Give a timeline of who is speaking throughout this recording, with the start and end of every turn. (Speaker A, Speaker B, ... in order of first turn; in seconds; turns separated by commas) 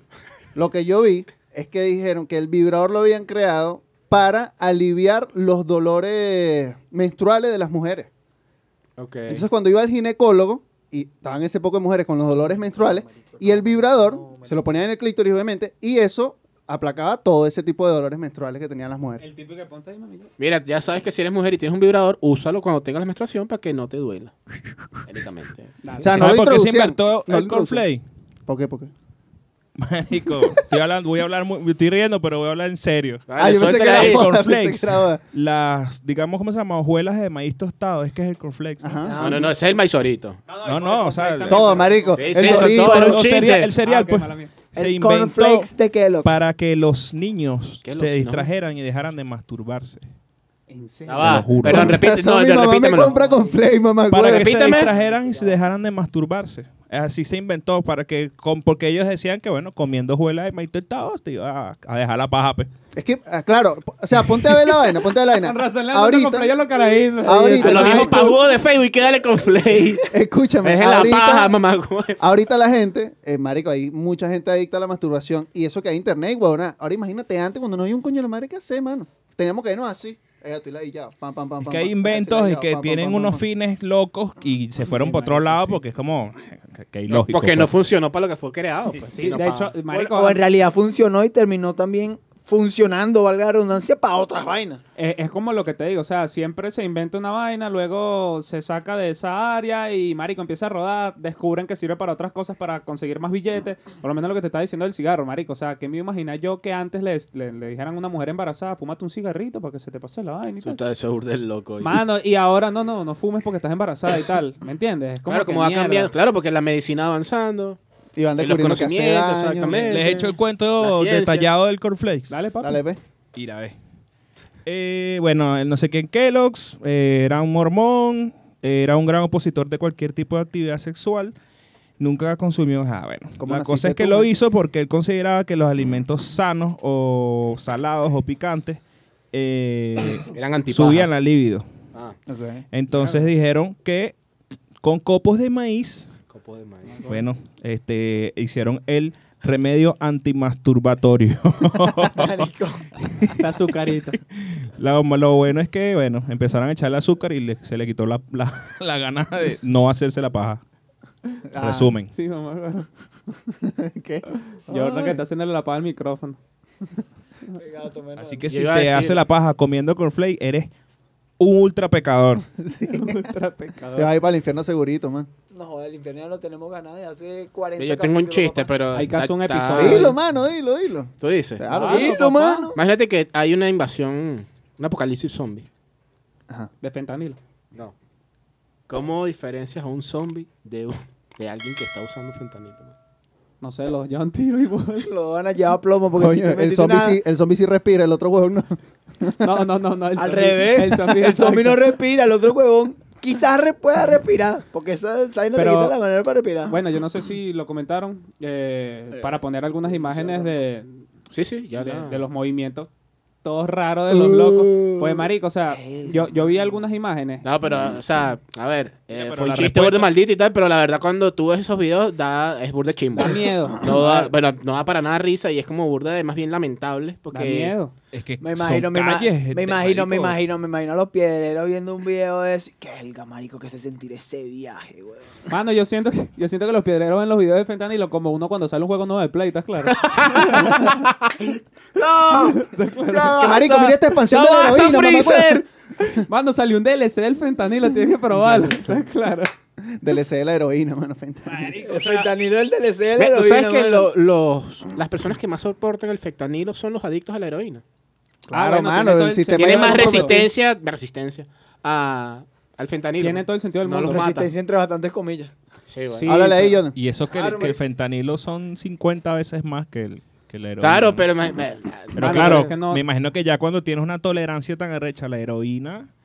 Speaker A: 0.6-8.1, Speaker B: 9.0-9.5, Speaker A: 9.3-19.2, Speaker C: 13.1-13.6, Speaker C: 14.2-14.5, Speaker D: 19.2-20.3, Speaker B: 20.4-24.3, Speaker B: 25.1-25.8, Speaker D: 25.8-26.2, Speaker A: 26.0-27.8, Speaker E: 26.1-28.0, Speaker A: 28.5-28.9, Speaker E: 29.8-33.2, Speaker B: 33.3-34.2, Speaker A: 33.4-35.2, Speaker E: 33.8-39.1, Speaker A: 38.8-39.1, Speaker C: 39.0-39.5, Speaker B: 39.2-40.4, Speaker D: 40.5-42.6, Speaker E: 40.6-41.8, Speaker A: 41.5-43.2, Speaker B: 42.2-43.7, Speaker E: 42.5-45.7, Speaker D: 43.8-44.5, Speaker C: 44.8-46.4, Speaker E: 46.2-50.0, Speaker B: 47.8-48.5, Speaker A: 50.7-54.8, Speaker B: 51.1-53.1, Speaker E: 51.2-52.0, Speaker C: 52.8-53.6, Speaker E: 54.1-62.7, Speaker B: 54.2-54.9, Speaker C: 54.7-55.6, Speaker A: 63.0-66.5, Speaker D: 65.3-68.3, Speaker A: 67.2-68.4, Speaker B: 67.6-70.0, Speaker A: 70.1-71.6, Speaker B: 70.6-72.2, Speaker A: 72.2-83.4, Speaker E: 81.6-87.7, Speaker D: 84.9-85.8, Speaker B: 87.1-89.7, Speaker D: 89.2-90.4, Speaker C: 89.9-94.8, Speaker D: 95.0-110.8, Speaker B: 110.6-112.0, Speaker D: 111.8-116.1, Speaker B: 115.3-117.8, Speaker A: 118.2-120.0, Speaker B: 118.4-121.5, Speaker E: 119.9-122.4, Speaker D: 122.3-122.8, Speaker A: 122.6-123.0, Speaker E: 123.3-123.8, Speaker E: 124.7-131.3, Speaker E: 132.0-138.8, Speaker A: 133.4-134.3, Speaker E: 139.3-141.7, Speaker B: 140.3-141.1, Speaker A: 142.3-142.7, Speaker E: 142.7-144.2, Speaker E: 144.8-146.1, Speaker B: 146.3-147.0, Speaker E: 147.1-152.5, Speaker C: 152.1-152.9, Speaker E: 153.0-153.4, Speaker D: 153.4-154.2, Speaker E: 154.3-160.6, Speaker A: 161.5-161.9, Speaker E: 161.6-162.1, Speaker D: 162.1-162.9, Speaker A: 163.5-165.2, Speaker D: 164.7-166.4, Speaker C: 167.6-168.5, Speaker E: 168.2-170.7, Speaker B: 168.5-169.2, Speaker E: 171.4-172.4, Speaker A: 172.6-173.3, Speaker D: 172.9-174.1, Speaker A: 173.9-175.3, Speaker C: 175.5-178.7, Speaker B: 177.8-180.1, Speaker D: 178.9-180.2, Speaker A: 179.7-182.5, Speaker B: 181.2-181.6, Speaker D: 181.7-182.7, Speaker C: 181.9-182.8, Speaker B: 182.7-185.7, Speaker D: 186.8-187.4, Speaker B: 188.9-192.9, Speaker D: 193.6-195.1, Speaker C: 195.0-197.2, Speaker A: 196.2-199.5, Speaker D: 199.4-201.9, Speaker C: 200.2-206.8, Speaker D: 205.6-205.9, Speaker D: 206.7-211.0, Speaker C: 209.1-210.5, Speaker B: 211.3-212.2, Speaker D: 211.9-212.9, Speaker D: 213.4-217.5, Speaker C: 214.1-216.6, Speaker B: 217.4-227.7, Speaker E: 219.1-220.1, Speaker D: 223.1-223.8, Speaker C: 223.8-224.3, Speaker D: 227.3-227.9, Speaker E: 228.1-230.4, Speaker C: 228.4-235.4, Speaker D: 235.5-240.7, Speaker B: 239.9-241.3, Speaker C: 242.1-242.6, Speaker D: 242.3-243.6, Speaker A: 243.2-245.7, Speaker C: 243.2-243.6, Speaker B: 244.3-245.6, Speaker D: 246.0-249.5, Speaker A: 249.9-251.7, Speaker D: 251.5-252.3, Speaker C: 251.8-254.1, Speaker B: 253.2-257.8, Speaker A: 258.5-260.5, Speaker D: 258.5-260.4, Speaker B: 259.6-264.5, Speaker D: 263.2-264.3, Speaker C: 264.1-265.5, Speaker B: 265.9-266.4, Speaker D: 266.2-266.8, Speaker A: 266.2-266.9, Speaker E: 266.9-271.3, Speaker C: 267.3-267.8, Speaker B: 270.8-272.7, Speaker E: 272.1-276.1, Speaker D: 272.2-273.0